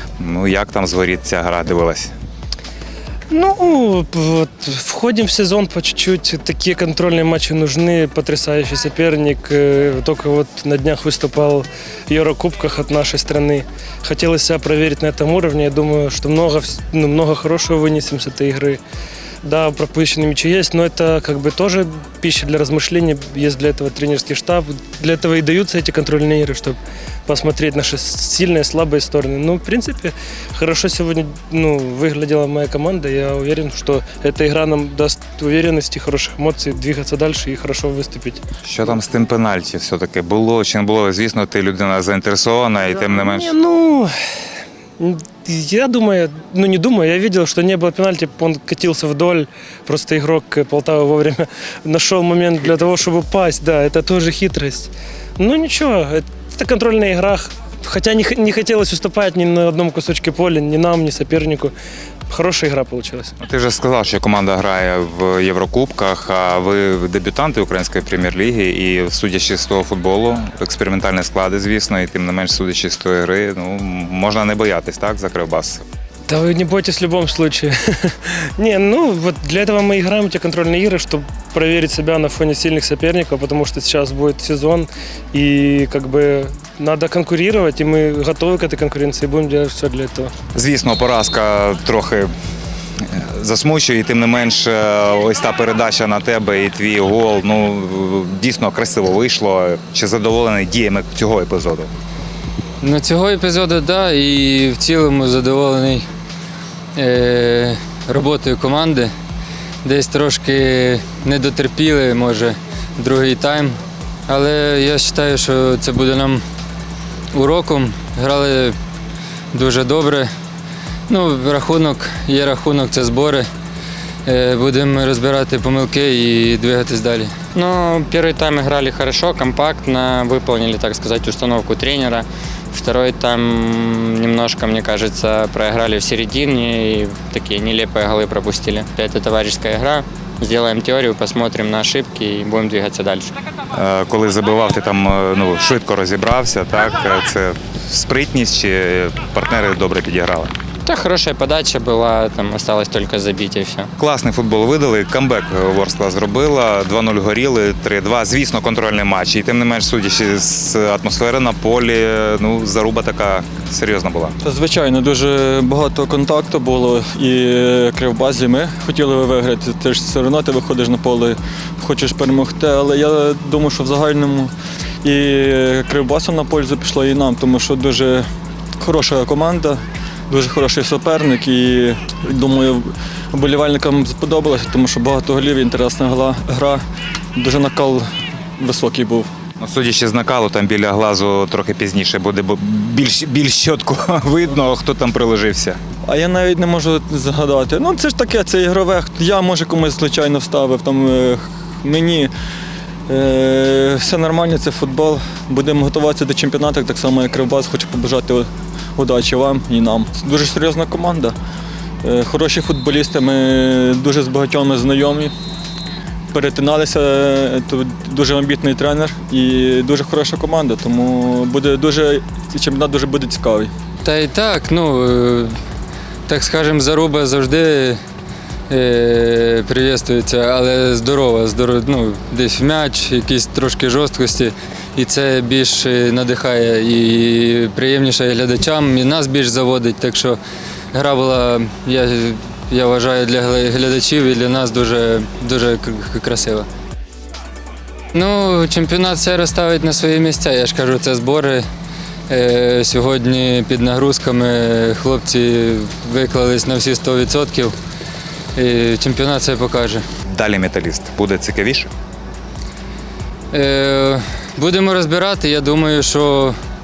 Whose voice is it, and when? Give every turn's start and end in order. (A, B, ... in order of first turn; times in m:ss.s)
0:00.2-0:02.1 A
0:03.3-0:18.8 B
0:19.4-0:38.4 B
0:38.6-0:43.6 A
0:43.1-0:44.1 B
0:45.0-1:01.7 B
1:02.3-1:03.3 B
1:03.4-1:15.8 A
1:16.3-1:30.3 B
1:30.5-1:32.3 A
1:33.1-1:41.9 A
1:42.8-1:46.1 C
1:47.0-1:49.1 C
1:49.8-1:56.4 C
1:57.3-1:58.8 C
1:59.5-2:00.3 C
2:01.1-2:03.5 C
2:04.3-2:07.4 C
2:07.6-2:13.7 D
2:14.2-2:23.3 D
2:23.7-2:30.5 A
2:30.9-2:33.8 D
2:34.0-2:44.4 A
2:44.4-2:54.5 E
2:55.0-2:58.3 E
2:58.8-3:06.8 E
3:07.4-3:08.0 E
3:08.6-3:09.3 E
3:09.6-3:15.8 A
3:16.0-3:22.3 E
3:23.1-3:31.4 E
3:32.0-3:35.3 E
3:36.3-3:43.7 E
3:44.0-3:45.6 C
3:46.3-3:48.0 C
3:48.7-4:00.4 C
4:00.9-4:06.7 C
4:08.1-4:11.6 C
4:12.3-4:17.7 C
4:18.6-4:20.0 C
4:20.3-4:21.9 A
4:23.5-4:26.6 C